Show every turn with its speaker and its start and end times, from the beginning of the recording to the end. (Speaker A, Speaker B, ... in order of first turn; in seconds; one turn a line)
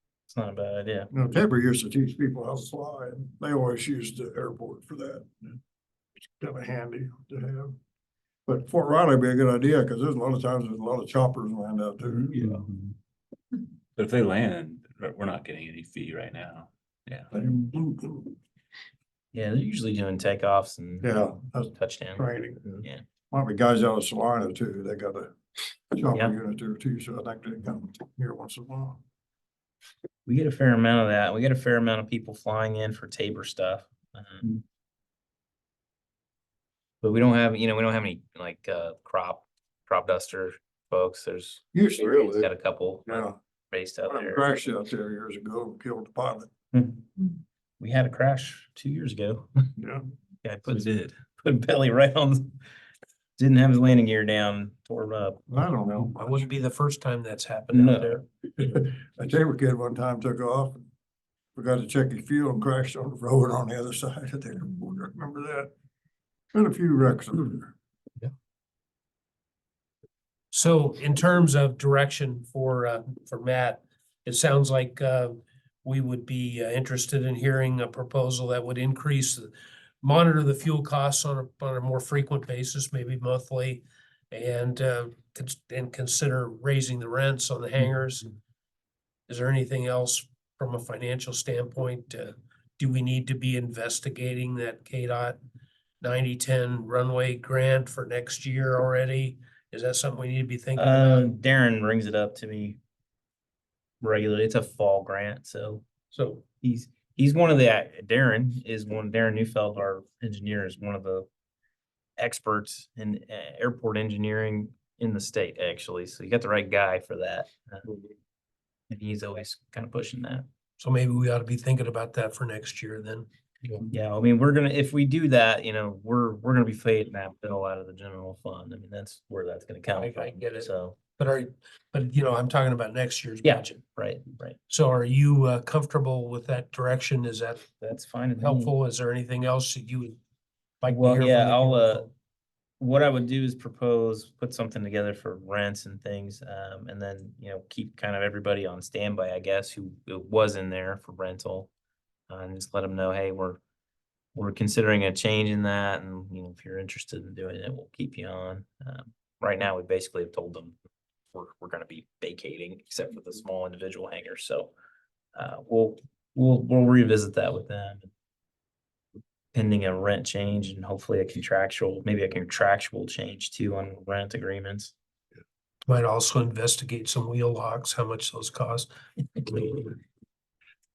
Speaker A: 0.3-1.1
Speaker B: 1.1-5.5
Speaker B: 6.4-7.8
Speaker B: 8.5-12.2
Speaker C: 12.1-12.9
Speaker C: 14.0-17.3
Speaker B: 17.3-18.3
Speaker A: 19.3-22.3
Speaker B: 21.0-22.8
Speaker B: 23.3-29.0
Speaker A: 30.2-34.5
Speaker A: 37.0-44.5
Speaker B: 41.7-42.5
Speaker B: 43.1-43.4
Speaker B: 44.1-46.5
Speaker A: 46.7-49.5
Speaker B: 49.8-50.0
Speaker A: 50.4-52.6
Speaker A: 53.4-55.4
Speaker B: 55.5-56.5
Speaker D: 56.1-58.2
Speaker A: 57.7-58.2
Speaker B: 58.6-60.9
Speaker B: 61.5-65.7
Speaker B: 66.5-67.8
Speaker D: 70.5-88.3
Speaker D: 89.3-95.4
Speaker D: 96.0-101.3
Speaker A: 100.8-102.8
Speaker A: 104.0-105.8
Speaker D: 106.1-106.4
Speaker A: 106.6-111.3
Speaker A: 112.2-117.9
Speaker A: 118.9-120.5
Speaker D: 120.8-123.3
Speaker A: 123.9-131.0
Speaker D: 129.9-133.7
Speaker A: 133.4-134.6
Speaker D: 134.7-137.7
Speaker A: 137.8-138.7
Speaker D: 138.4-140.2
Speaker D: 140.8-142.1
Speaker A: 140.9-142.1
Speaker A: 142.8-151.7
Speaker A: 152.3-153.6
Speaker A: 154.3-160.7
Speaker A: 161.3-164.7
Speaker A: 165.3-168.1
Speaker A: 169.5-174.9
Speaker D: 175.9-179.9